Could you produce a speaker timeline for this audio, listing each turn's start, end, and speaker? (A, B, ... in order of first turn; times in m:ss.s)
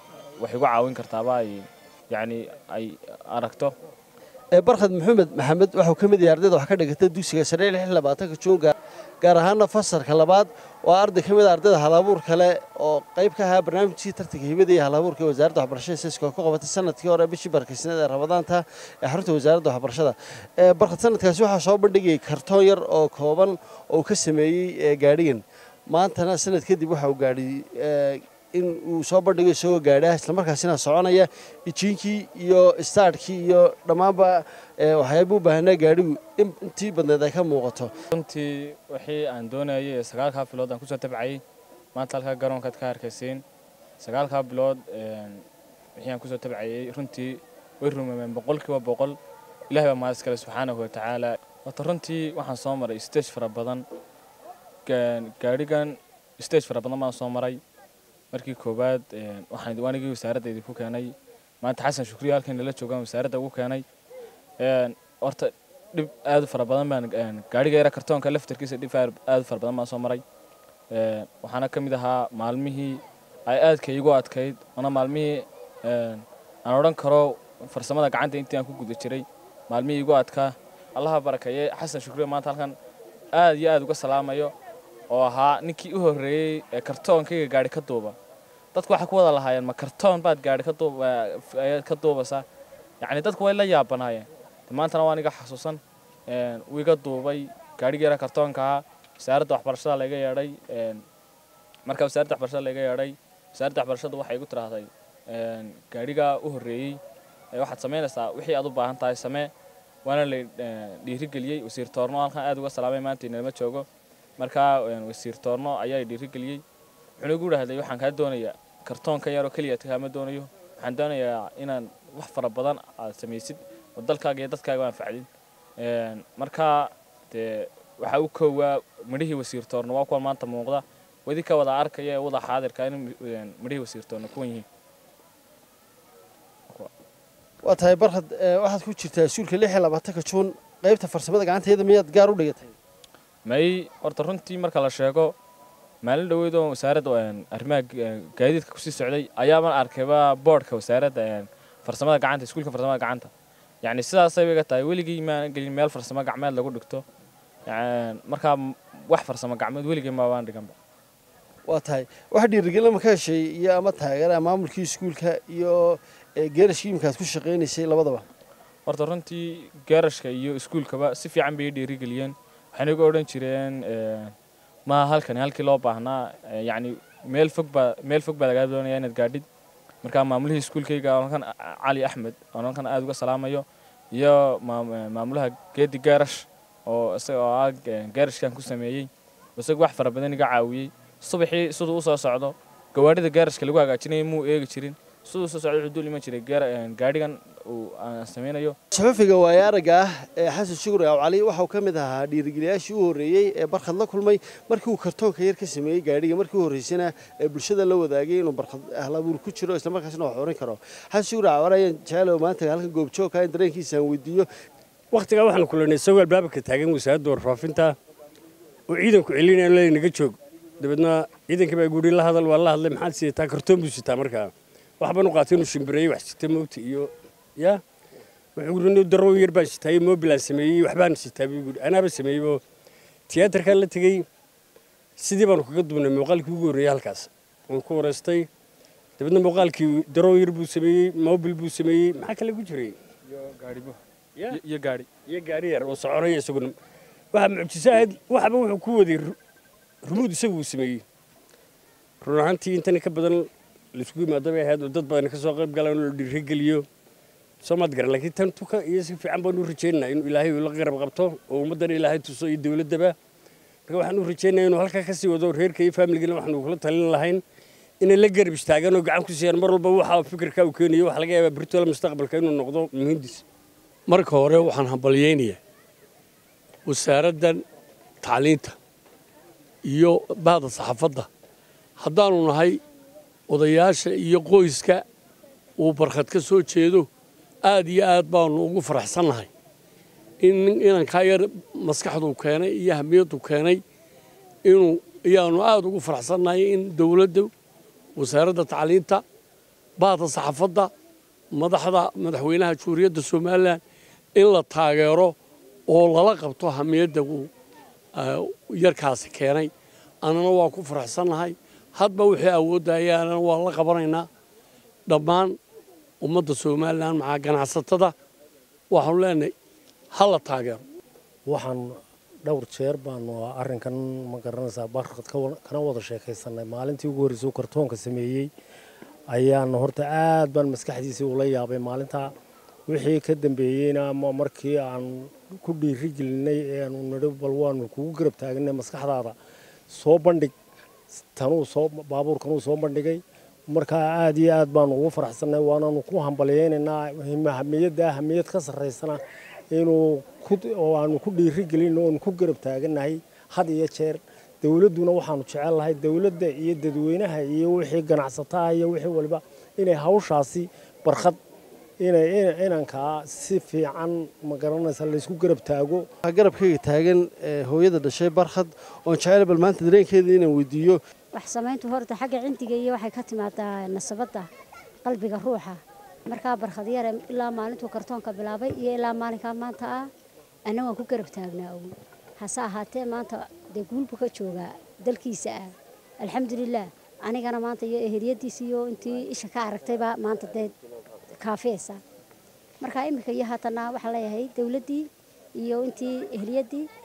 0:00.4-0:03.7 A
0:04.5-0:37.9 B
0:38.1-0:41.4 A
0:42.0-0:43.4 A
0:44.0-0:45.4 A
0:46.0-0:49.2 A
0:49.7-0:53.8 A
0:54.8-0:57.6 A
0:58.3-1:03.8 A
1:04.6-1:10.2 A
1:10.9-1:22.8 A
1:23.3-1:24.5 A
1:25.1-1:28.2 A
1:28.7-1:32.4 A
1:33.0-1:41.0 A
1:41.9-1:47.0 A
1:47.5-1:49.5 A
1:50.0-1:53.9 A
1:54.4-1:56.6 A
1:57.2-2:05.3 A
2:05.8-2:14.7 A
2:17.6-2:22.7 B
2:23.4-2:25.3 A
2:26.0-2:33.3 A
2:33.8-2:37.0 A
2:37.7-2:40.8 A
2:41.7-2:48.2 B
2:48.9-2:54.3 A
2:54.9-2:59.4 A
3:00.0-3:18.8 A
3:18.9-3:34.5 B
3:35.1-3:38.0 C
3:38.9-3:47.8 C
3:48.6-3:52.6 C
3:53.3-3:54.2 C
3:55.2-3:58.5 C
3:59.2-4:03.0 C
4:03.3-4:04.0 A
4:04.5-4:05.1 A
4:05.2-4:06.8 C
4:07.3-4:09.4 C
4:10.0-4:11.0 C
4:12.2-4:16.9 C
4:17.6-4:23.2 C
4:23.9-4:27.4 C
4:28.0-4:33.4 C
4:34.1-4:35.6 D
4:36.9-4:37.6 D
4:38.2-4:38.8 D
4:39.8-4:41.3 D
4:42.0-4:42.8 D
4:43.5-4:45.0 D
4:45.8-4:47.1 D
4:47.6-4:49.5 D
4:50.4-4:53.8 D
4:54.6-4:57.5 D
4:58.2-4:59.2 D
5:00.0-5:00.9 D
5:01.5-5:03.8 D
5:04.4-5:05.4 D
5:05.9-5:07.5 D
5:08.1-5:09.7 D
5:10.2-5:14.3 D
5:15.1-5:15.6 D
5:16.2-5:18.1 D
5:18.9-5:19.5 D
5:20.1-5:20.8 D
5:21.5-5:28.5 E
5:29.3-5:32.3 E
5:32.9-5:39.4 E
5:39.9-5:40.5 E
5:41.3-5:49.2 E
5:49.7-6:01.4 E
6:02.0-6:06.1 E
6:06.2-6:11.0 B
6:11.3-6:14.4 F
6:15.0-6:20.0 F
6:20.7-6:25.7 F
6:26.2-6:30.8 F
6:31.3-6:32.0 F
6:32.8-6:35.1 F
6:35.6-6:36.9 F